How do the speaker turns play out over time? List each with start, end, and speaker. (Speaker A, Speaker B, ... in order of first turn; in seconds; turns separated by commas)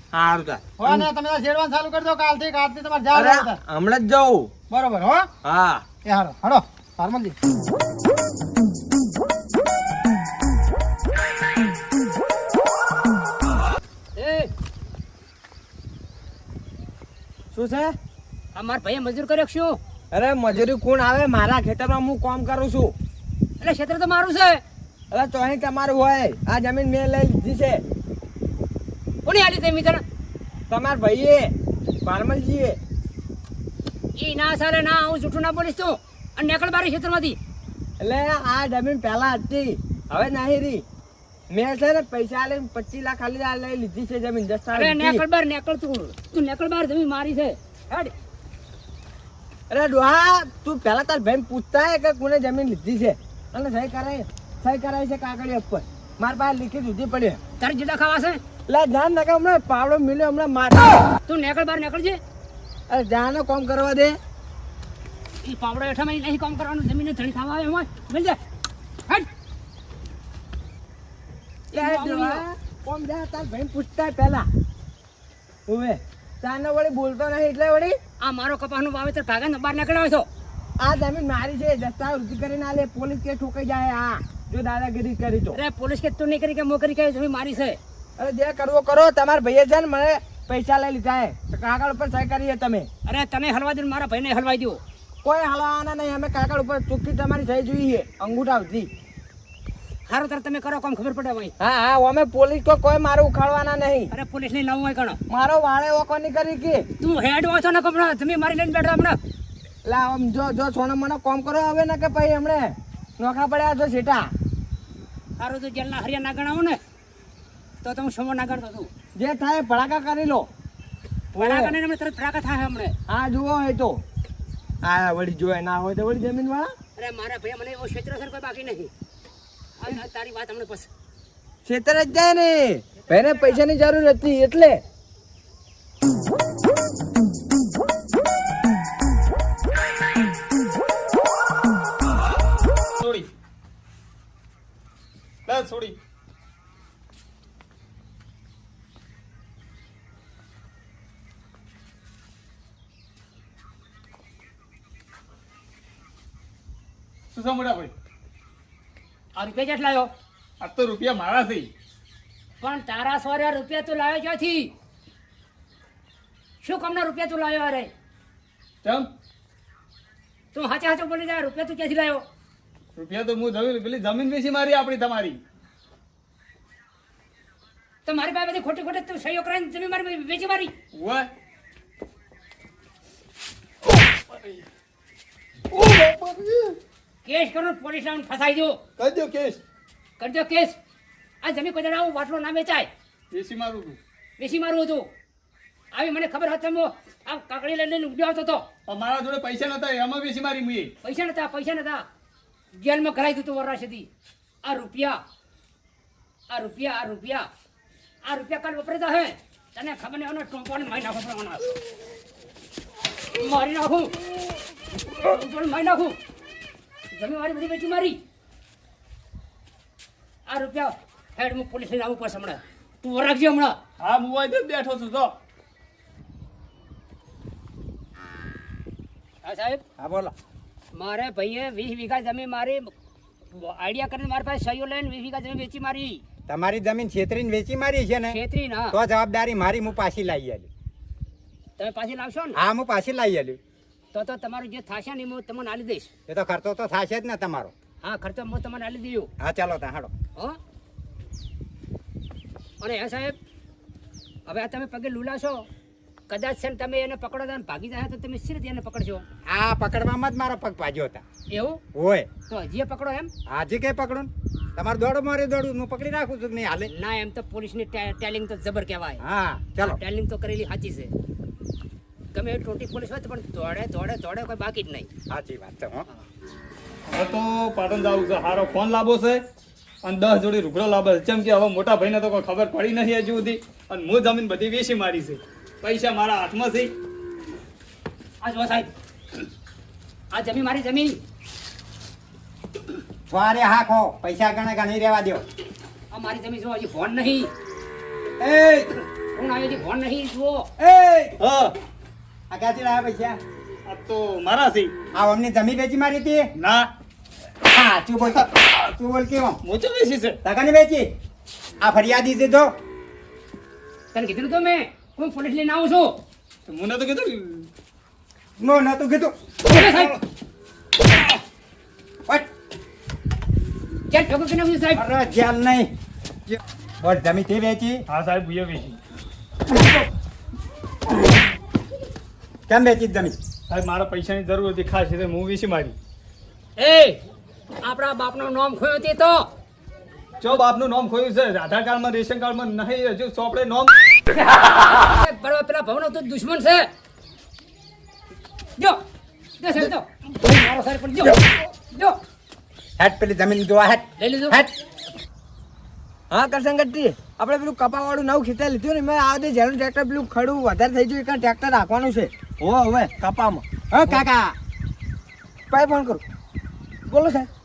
Speaker A: 0.1-1.0, Speaker B: 0.8-3.6, Speaker A: 3.1-4.5, Speaker B: 4.7-5.3, Speaker A: 5.4-5.8, Speaker B: 6.0-7.3, Speaker C: 14.1-14.5, Speaker A: 17.5-17.9, Speaker C: 18.5-19.8, Speaker A: 20.1-22.9, Speaker C: 23.6-24.6, Speaker A: 25.1-27.8, Speaker C: 29.2-30.0, Speaker A: 30.7-31.5, Speaker A: 32.0-32.8, Speaker C: 34.1-37.4, Speaker A: 38.0-40.8, Speaker A: 41.5-45.2, Speaker C: 44.7-48.1, Speaker A: 49.7-57.4, Speaker C: 57.6-58.4, Speaker A: 58.7-61.0, Speaker C: 61.2-62.2, Speaker A: 62.9-64.2, Speaker C: 65.4-68.4, Speaker C: 71.7-72.4, Speaker A: 71.7-74.5, Speaker A: 75.7-78.0, Speaker C: 78.2-80.3, Speaker A: 80.8-85.5, Speaker C: 85.5-87.8, Speaker A: 88.2-92.9, Speaker C: 93.0-94.8, Speaker A: 95.2-98.9, Speaker C: 100.1-101.5, Speaker A: 101.6-104.1, Speaker C: 104.1-105.2, Speaker A: 105.3-106.8, Speaker C: 107.0-109.2, Speaker A: 109.8-114.2, Speaker C: 115.4-116.8, Speaker C: 117.8-118.9, Speaker A: 119.2-120.5, Speaker A: 121.3-121.7, Speaker C: 121.3-122.9, Speaker A: 123.1-124.0, Speaker A: 124.8-126.7, Speaker C: 127.0-128.9, Speaker C: 129.8-130.9, Speaker A: 131.7-134.8, Speaker C: 133.1-133.6, Speaker D: 142.9-143.3, Speaker D: 145.4-146.0, Speaker D: 157.3-157.9, Speaker C: 159.3-160.1, Speaker D: 160.6-161.7, Speaker C: 162.6-164.7, Speaker C: 166.6-167.9, Speaker D: 168.8-169.1, Speaker C: 170.5-172.2, Speaker D: 172.9-175.4, Speaker C: 178.1-180.7, Speaker D: 180.9-181.3, Speaker D: 184.3-184.7, Speaker D: 185.7-186.8, Speaker C: 187.2-188.8, Speaker D: 189.0-189.6, Speaker C: 190.2-190.8, Speaker C: 191.4-192.9, Speaker D: 193.3-194.0, Speaker C: 194.4-195.1, Speaker C: 195.9-198.7, Speaker D: 198.8-200.9, Speaker C: 201.0-202.0, Speaker C: 202.7-204.1, Speaker C: 204.6-205.2, Speaker C: 206.5-207.4, Speaker C: 208.2-211.7, Speaker C: 213.3-214.2, Speaker C: 215.1-216.2, Speaker C: 217.1-218.2, Speaker C: 220.5-223.8, Speaker D: 224.0-225.3, Speaker C: 229.4-229.8, Speaker E: 230.0-230.3, Speaker C: 230.9-232.9, Speaker C: 233.5-236.2, Speaker E: 236.5-238.4, Speaker C: 238.3-239.0, Speaker E: 238.9-240.7, Speaker C: 241.8-242.6, Speaker E: 242.5-243.6, Speaker C: 244.1-246.1, Speaker E: 246.3-247.7, Speaker C: 248.0-249.3, Speaker E: 249.4-250.1, Speaker C: 252.8-253.3, Speaker C: 254.4-255.7, Speaker C: 256.3-259.2, Speaker E: 259.5-261.2, Speaker C: 261.5-261.8, Speaker E: 261.9-262.3, Speaker C: 262.5-263.3, Speaker E: 263.5-266.9, Speaker C: 266.9-269.2, Speaker E: 269.2-270.0, Speaker C: 269.8-271.1, Speaker C: 272.3-275.1, Speaker E: 275.3-276.1, Speaker D: 277.1-279.4, Speaker D: 280.0-286.9, Speaker C: 288.4-288.9, Speaker C: 290.3-291.2, Speaker E: 293.3-295.4, Speaker C: 296.1-297.5, Speaker E: 298.4-298.9, Speaker C: 299.3-300.7, Speaker E: 300.8-301.4, Speaker D: 301.4-301.8, Speaker E: 302.5-303.4, Speaker D: 303.9-304.9, Speaker E: 305.1-306.5, Speaker D: 306.6-306.9, Speaker E: 307.6-309.6, Speaker D: 309.6-310.4, Speaker E: 310.4-311.1, Speaker E: 311.8-312.7, Speaker C: 314.1-316.2, Speaker D: 316.7-317.7, Speaker E: 318.6-319.9, Speaker C: 319.6-320.2, Speaker C: 324.1-325.0, Speaker E: 324.9-325.9, Speaker E: 326.5-328.0, Speaker D: 328.1-329.0, Speaker E: 329.7-330.0, Speaker E: 332.7-333.4, Speaker D: 333.7-335.9, Speaker C: 336.8-337.2, Speaker C: 337.8-339.5, Speaker D: 340.4-343.9, Speaker C: 344.5-346.9, Speaker C: 349.6-352.2, Speaker E: 353.0-354.7, Speaker C: 354.2-354.6, Speaker A: 356.3-364.2, Speaker E: 364.2-364.6, Speaker A: 365.7-366.2, Speaker A: 367.1-367.5